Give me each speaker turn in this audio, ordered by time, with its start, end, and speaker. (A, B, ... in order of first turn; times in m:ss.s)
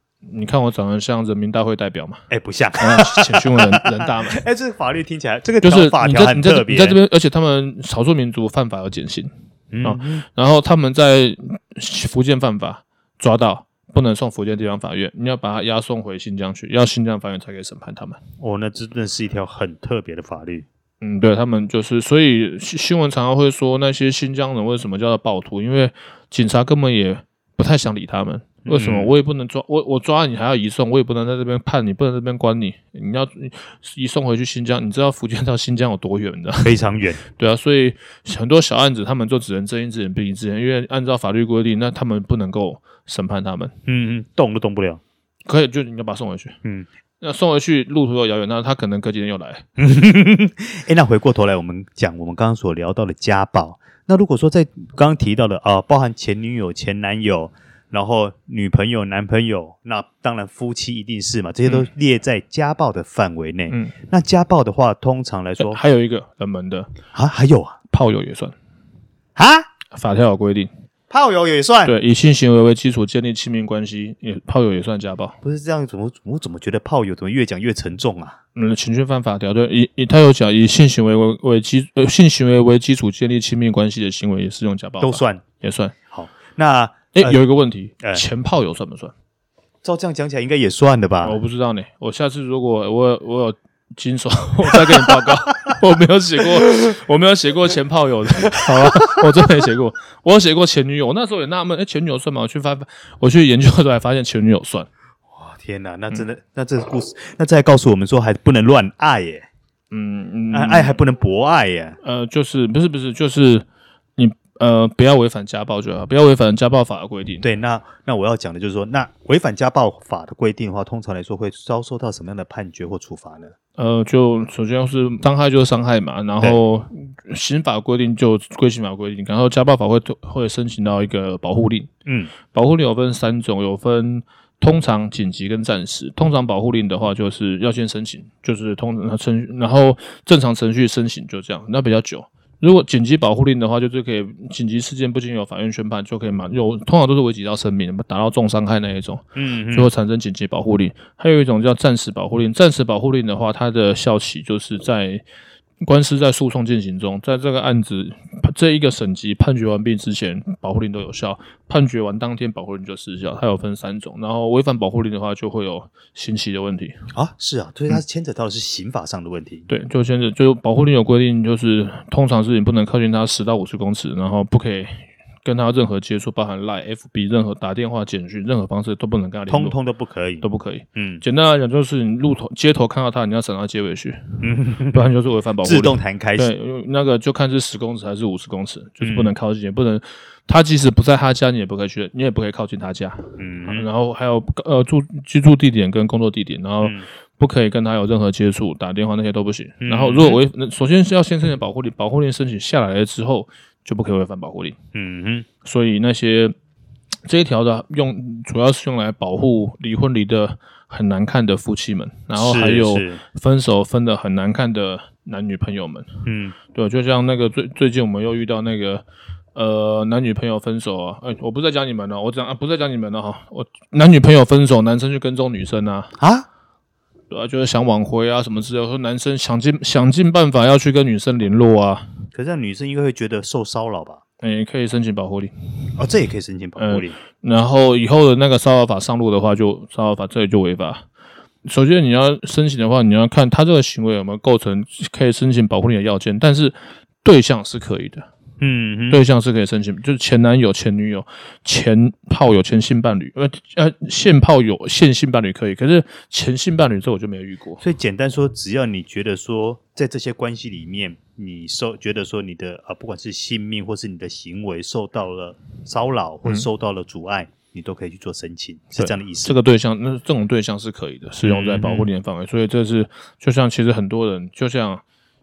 0:00.3-0:02.2 A
0:02.3-0:07.0 B
0:02.8-0:04.4 A
0:05.6-0:09.3 A
0:09.7-0:10.2 B
0:09.8-0:18.2 A
0:18.4-0:20.7 B
0:21.0-0:36.8 A
0:28.6-0:29.1 B
0:36.6-0:37.2 B
0:37.3-0:43.7 A
0:43.9-0:45.0 B
0:45.5-0:46.6 A
0:47.2-0:49.6 A
0:49.8-1:05.8 B
1:03.7-1:04.0 A
1:05.6-1:06.9 A
1:07.1-1:07.8 B
1:07.9-1:08.5 A
1:09.4-1:09.7 B
1:09.9-1:10.7 A
1:11.1-1:11.9 B
1:11.9-1:15.4 A
1:15.4-1:18.4 B
1:18.6-1:26.0 A
1:25.0-1:25.4 B
1:26.1-1:27.4 B
1:27.1-1:29.1 A
1:29.8-1:31.4 B
1:31.2-1:44.9 A
1:38.7-1:39.0 B
1:45.3-1:49.5 B
1:49.9-1:51.0 A
1:50.5-1:52.0 B
1:52.0-1:53.6 A
1:54.2-1:57.4 A
1:57.4-2:03.5 B
2:03.8-2:11.9 A
2:12.1-2:12.3 B
2:12.5-2:35.2 A
2:29.4-2:29.9 B
2:35.8-2:47.0 A
2:47.1-2:49.7 B
2:49.7-2:59.8 A
2:59.5-3:01.2 B
3:00.4-3:04.2 A
3:04.4-3:05.1 B
3:04.9-3:24.8 A
3:05.6-3:06.5 B
3:09.0-3:09.4 B
3:13.4-3:13.9 B
3:16.8-3:17.1 B
3:19.8-3:20.4 B
3:24.9-3:25.5 B
3:25.6-3:26.5 A
3:27.3-3:36.1 A
3:32.4-3:33.2 B
3:36.2-3:36.6 B
3:36.7-3:46.1 A
3:46.2-3:46.5 B
3:47.3-3:52.1 A
3:52.3-3:54.2 B
3:54.4-3:55.5 A
3:56.0-3:57.2 B
3:56.8-4:01.0 A
4:01.6-4:08.3 A
4:08.6-4:09.2 B
4:09.1-4:17.8 A
4:17.8-4:29.6 B
4:29.0-4:35.0 A
4:31.4-4:32.1 B